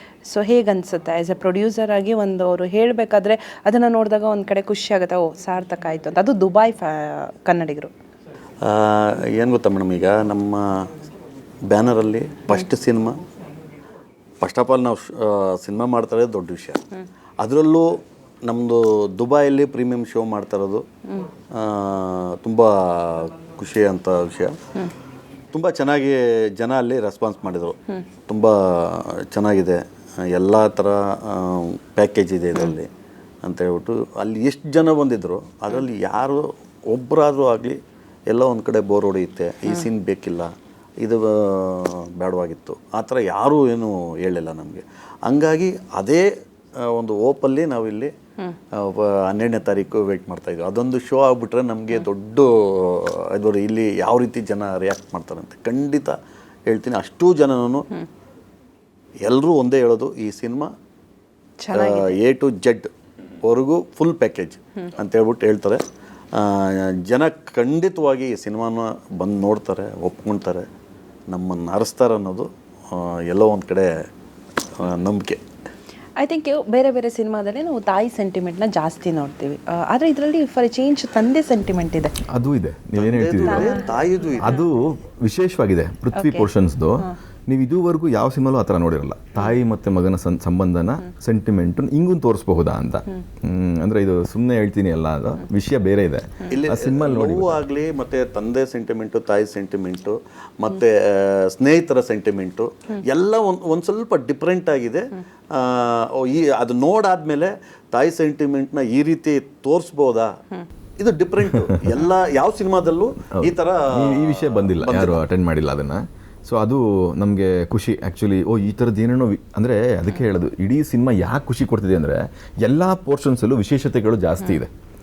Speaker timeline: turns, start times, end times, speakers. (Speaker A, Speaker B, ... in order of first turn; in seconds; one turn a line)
Speaker A: 0.3-7.9
Speaker B: 8.6-10.9
Speaker B: 11.7-13.2
Speaker B: 14.4-16.8
Speaker B: 17.4-17.9
Speaker B: 18.4-20.8
Speaker B: 21.5-24.6
Speaker B: 25.5-27.8
Speaker B: 28.3-32.9
Speaker B: 33.4-37.8
Speaker B: 38.3-46.3
Speaker B: 46.8-48.1
Speaker B: 48.8-56.2
Speaker B: 56.7-57.9
Speaker B: 59.2-60.7
Speaker A: 61.6-62.2
Speaker B: 61.8-62.9
Speaker B: 63.4-65.8
Speaker B: 66.3-70.7
Speaker B: 71.3-74.0
Speaker B: 74.8-75.4
Speaker A: 76.2-82.1
Speaker C: 82.3-83.8
Speaker B: 83.0-84.6
Speaker A: 83.4-83.8
Speaker C: 84.4-97.6
Speaker A: 84.4-84.7
Speaker A: 86.1-86.5
Speaker B: 96.5-110.3
Speaker B: 111.0-115.2
Speaker C: 113.3-124.7